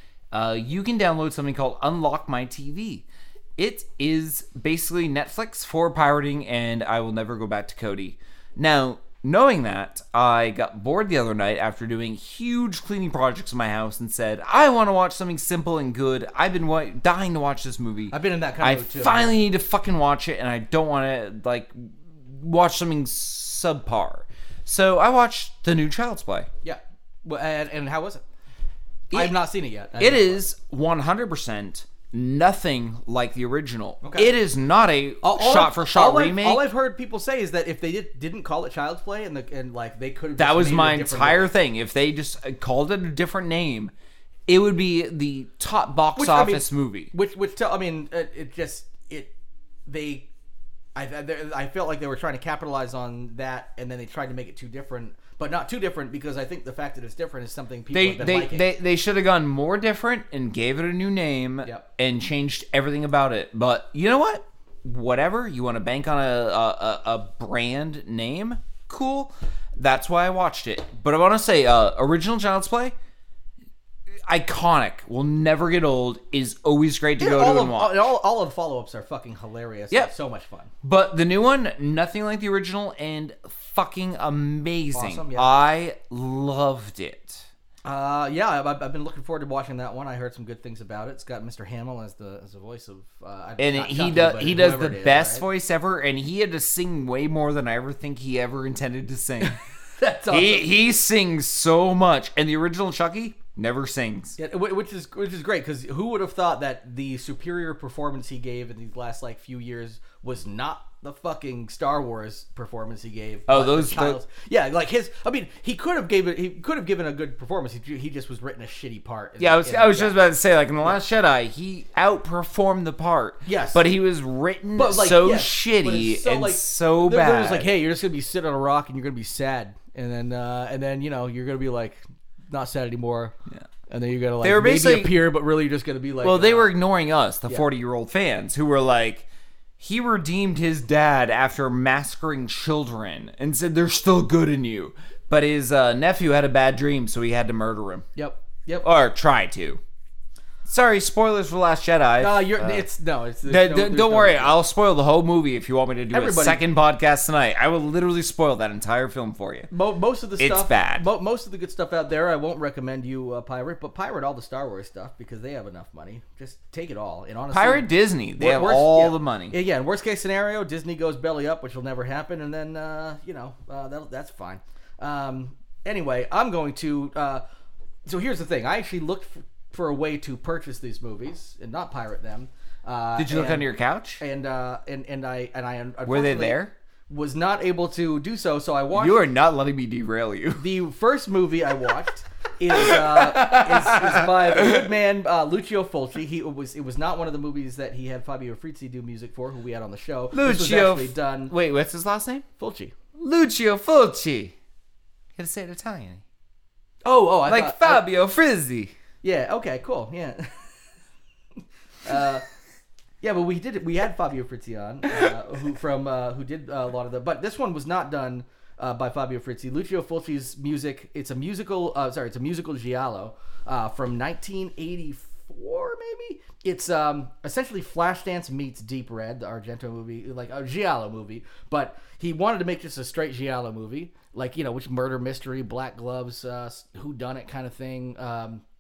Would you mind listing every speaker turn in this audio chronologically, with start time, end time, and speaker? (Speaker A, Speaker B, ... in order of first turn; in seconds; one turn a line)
Speaker A: 0.3-3.0
Speaker A: 3.6-26.5
Speaker B: 18.1-19.4
Speaker B: 26.6-28.2
Speaker A: 29.1-29.4
Speaker B: 29.1-30.4
Speaker A: 30.0-36.7
Speaker B: 34.0-34.3
Speaker B: 35.2-41.5
Speaker A: 40.4-43.9
Speaker A: 44.5-47.1
Speaker B: 46.1-49.3
Speaker B: 49.9-50.3
Speaker B: 50.9-58.7
Speaker A: 57.9-72.9
Speaker A: 74.2-78.1
Speaker B: 77.2-80.7
Speaker A: 80.8-87.5
Speaker B: 84.9-85.5
Speaker B: 87.8-95.5
Speaker A: 93.6-99.6
Speaker B: 100.0-100.7
Speaker A: 100.3-104.4
Speaker B: 104.4-120.2
Speaker A: 113.5-114.2
Speaker A: 119.4-127.7
Speaker B: 123.4-123.9
Speaker B: 124.7-133.4
Speaker B: 133.9-136.7
Speaker A: 134.4-135.2
Speaker A: 136.2-139.2
Speaker A: 139.8-148.1
Speaker B: 148.2-148.9
Speaker A: 148.8-149.8
Speaker A: 150.6-152.9
Speaker B: 152.2-154.6
Speaker A: 153.4-159.7
Speaker B: 156.1-156.6
Speaker B: 159.7-177.4
Speaker A: 160.4-161.1
Speaker A: 167.5-169.6
Speaker B: 178.1-189.2
Speaker A: 183.2-184.2
Speaker A: 186.1-186.7
Speaker A: 188.9-190.7
Speaker B: 190.6-201.5
Speaker A: 192.7-194.9
Speaker A: 200.3-202.4
Speaker B: 202.6-202.9
Speaker A: 203.2-204.6
Speaker A: 205.3-206.2
Speaker B: 207.0-208.1
Speaker A: 207.4-208.9
Speaker B: 209.2-210.7
Speaker B: 212.0-212.4
Speaker B: 213.2-238.6